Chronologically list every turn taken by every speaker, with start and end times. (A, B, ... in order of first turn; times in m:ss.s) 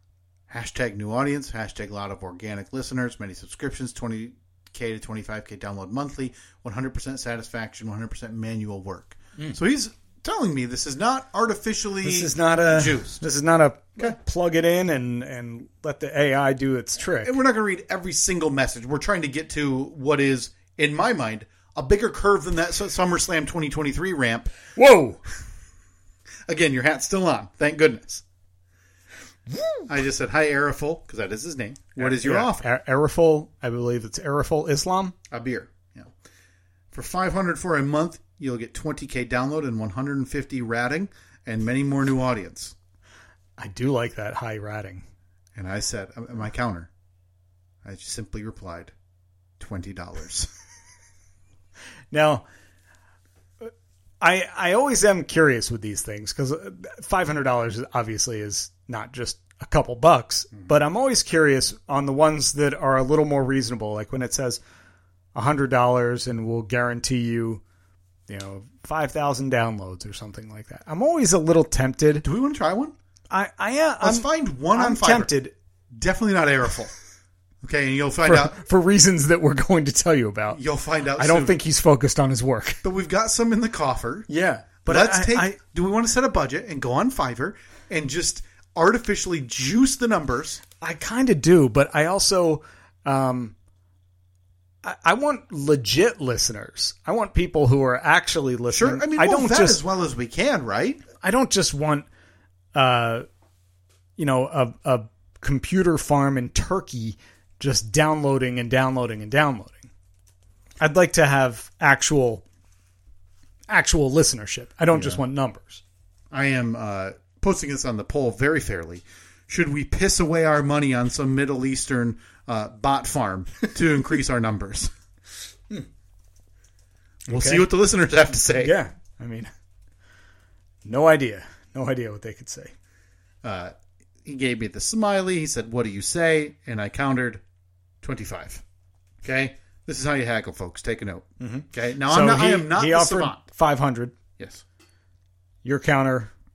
0:00.5-0:13.2 A
0:12.0-0:17.4 B
0:17.2-0:24.5 A
0:24.8-0:25.2 B
0:26.5-0:28.2 A
0:29.5-0:29.8 B
0:29.9-0:32.6 A
0:32.0-0:35.1 B
0:35.3-0:36.1 A
0:36.9-0:42.7 A
0:43.6-0:45.0 B
0:45.6-0:46.9 A
0:47.8-0:48.9 A
0:49.6-0:50.5 A
0:52.1-0:52.4 B
0:53.6-1:04.6 B
1:05.3-1:07.6 B
1:08.3-1:12.2 B
1:12.2-1:12.9 A
1:13.3-1:15.5 B
1:14.0-1:15.3 A
1:15.9-1:16.9 A
1:17.6-1:18.5 A
1:18.2-1:20.6 B
1:20.5-1:21.6 A
1:21.2-1:22.8 B
1:22.8-1:24.3 A
1:24.3-1:25.6 B
1:24.8-1:30.6 A
1:30.8-1:33.5 B
1:34.8-1:39.8 B
1:38.7-1:41.0 A
1:41.2-1:42.1 B
1:42.7-1:43.2 B
1:44.2-1:49.9 B
1:50.8-1:52.4 B
1:53.7-1:55.8 B
1:54.9-1:55.2 A
1:56.3-2:04.9 A
2:07.3-2:07.6 B
2:07.3-2:08.7 A
2:08.6-2:09.5 B
2:10.8-2:12.7 B
2:13.4-2:13.7 A
2:14.2-2:17.4 A
2:18.0-2:18.6 A
2:19.2-2:23.4 A
2:21.4-2:24.2 B
2:24.4-2:24.6 A
2:25.6-2:26.3 B